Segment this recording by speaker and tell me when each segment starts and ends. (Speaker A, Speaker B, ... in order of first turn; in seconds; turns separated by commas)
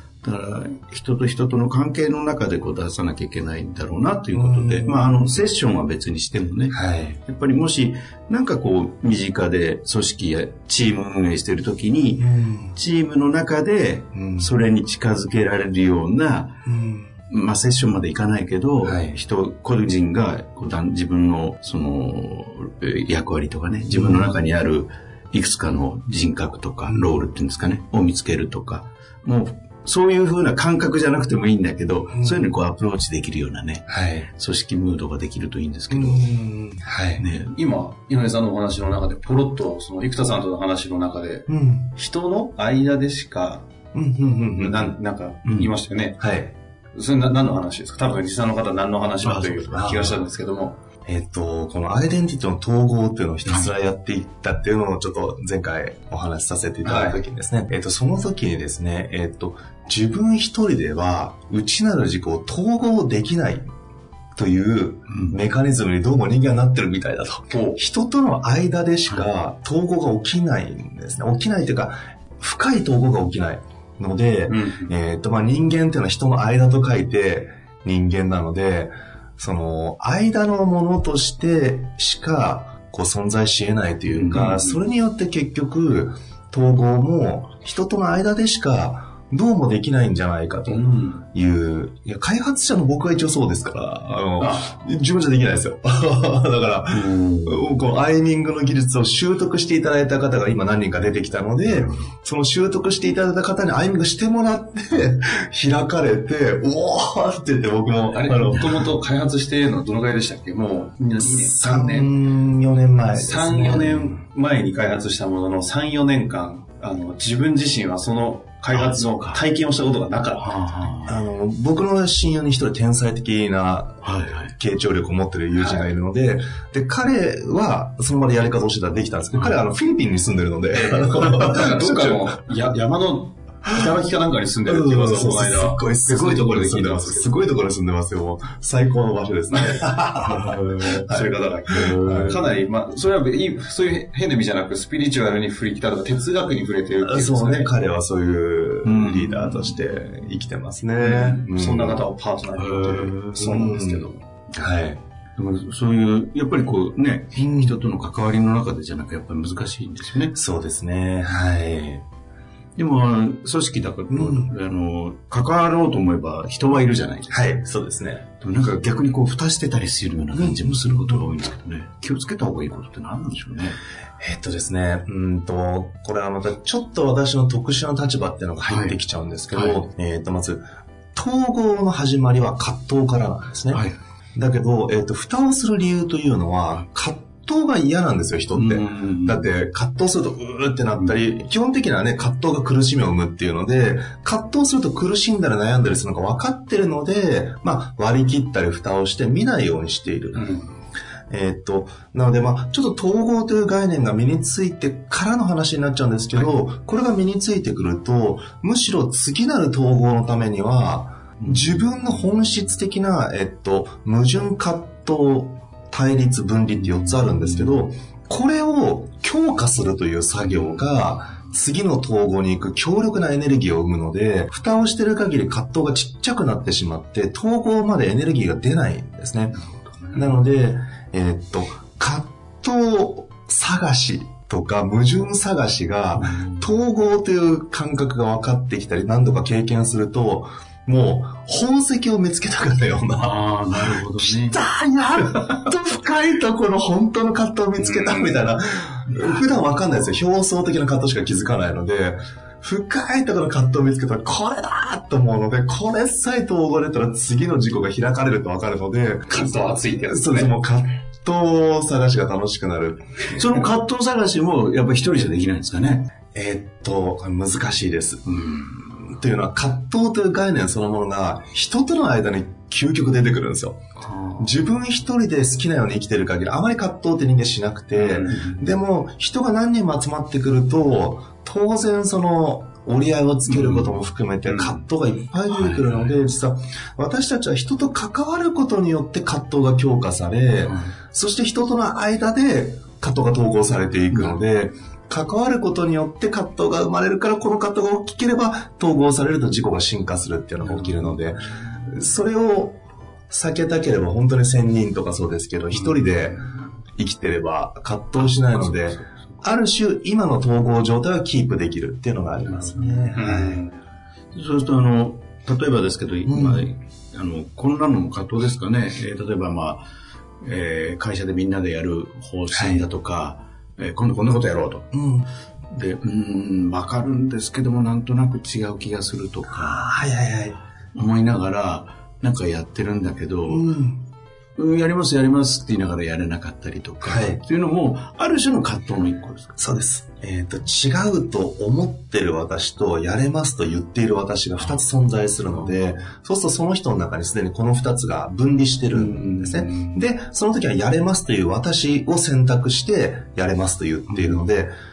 Speaker A: 0.2-16.6, Speaker B: 4.3-5.3, Speaker B: 6.7-7.2, Speaker B: 12.2-12.8, Speaker B: 14.1-14.5, Speaker B: 16.7-17.1, Speaker A: 17.3-36.3, Speaker B: 18.8-19.2, Speaker B: 23.9-24.3, Speaker B: 26.9-27.2, Speaker B: 32.1-32.4, Speaker B: 33.9-34.3, Speaker B: 35.9-37.2, Speaker A: 37.2-37.5, Speaker C: 37.5-43.7, Speaker B: 41.5-41.9, Speaker B: 43.9-44.9, Speaker C: 44.6-46.2, Speaker A: 45.5-45.7, Speaker B: 46.2-46.5, Speaker C: 46.9-50.8, Speaker A: 49.2-50.0, Speaker B: 49.7-50.2, Speaker B: 51.1-63.6, Speaker A: 53.5-53.7, Speaker C: 56.8-57.2, Speaker B: 64.3-108.9, Speaker A: 65.1-65.4, Speaker C: 67.5-67.8, Speaker C: 74.5-74.9, Speaker A: 84.1-84.5, Speaker C: 84.3-84.8, Speaker C: 90.7-91.2, Speaker C: 94.4-94.7, Speaker A: 96.9-97.7, Speaker A: 101.7-102.1, Speaker C: 108.1-112.1, Speaker B: 111.2-113.9, Speaker C: 113.1-120.9, Speaker A: 113.8-114.1, Speaker A: 118.7-119.4, Speaker A: 120.3-121.2, Speaker B: 121.1-132.3, Speaker A: 124.0-124.5, Speaker C: 125.5-125.9, Speaker C: 130.7-137.3, Speaker B: 134.7-142.3, Speaker C: 139.6-140.0, Speaker A: 140.2-141.1, Speaker C: 141.0-147.7, Speaker A: 141.7-142.5, Speaker B: 147.0-152.0, Speaker A: 148.8-149.8, Speaker C: 151.0-154.2, Speaker A: 152.6-153.7, Speaker B: 153.5-155.0, Speaker A: 155.4-160.3, Speaker B: 157.4-157.8, Speaker B: 160.3-162.1, Speaker A: 162.8-167.4, Speaker B: 164.1-164.5, Speaker B: 167.3-168.3, Speaker A: 168.4-173.8, Speaker B: 170.3-171.2, Speaker B: 174.2-183.8, Speaker A: 178.7-179.0, Speaker A: 179.5-179.8, Speaker A: 183.7-184.0, Speaker B: 184.4-200.5, Speaker A: 188.5-189.5, Speaker C: 200.3-200.7, Speaker B: 201.3-229.6, Speaker A: 211.4-211.8, Speaker A: 216.8-217.8, Speaker A: 220.4-220.8, Speaker A: 229.5-230.3, Speaker B: 230.1-263.4, Speaker A: 236.2-236.7, Speaker A: 243.2-244.6, Speaker C: 247.8-248.4, Speaker C: 259.3-260.5, Speaker A: 263.3-266.1, Speaker B: 266.3-268.3, Speaker A: 268.2-269.0, Speaker B: 269.0-273.8, Speaker A: 274.0-274.5, Speaker B: 274.4-306.4, Speaker C: 277.9-278.4, Speaker A: 278.2-278.6, Speaker A: 283.5-284.0, Speaker C: 284.4-284.8, Speaker A: 285.5-286.0, Speaker A: 290.6-290.9, Speaker A: 294.1-294.4, Speaker A: 300.6-301.9, Speaker A: 305.7-306.6, Speaker B: 306.9-313.6, Speaker A: 308.2-309.2, Speaker A: 312.4-313.2, Speaker C: 313.1-313.8, Speaker A: 314.3-319.9, Speaker B: 316.2-316.6, Speaker A: 320.4-324.9, Speaker B: 322.5-322.9, Speaker B: 324.9-325.3, Speaker A: 325.7-329.8, Speaker B: 329.5-330.6, Speaker A: 330.9-333.7, Speaker B: 333.5-334.0, Speaker A: 334.6-339.6, Speaker B: 337.0-337.4, Speaker B: 339.6-354.7, Speaker A: 348.9-350.1, Speaker A: 354.1-354.4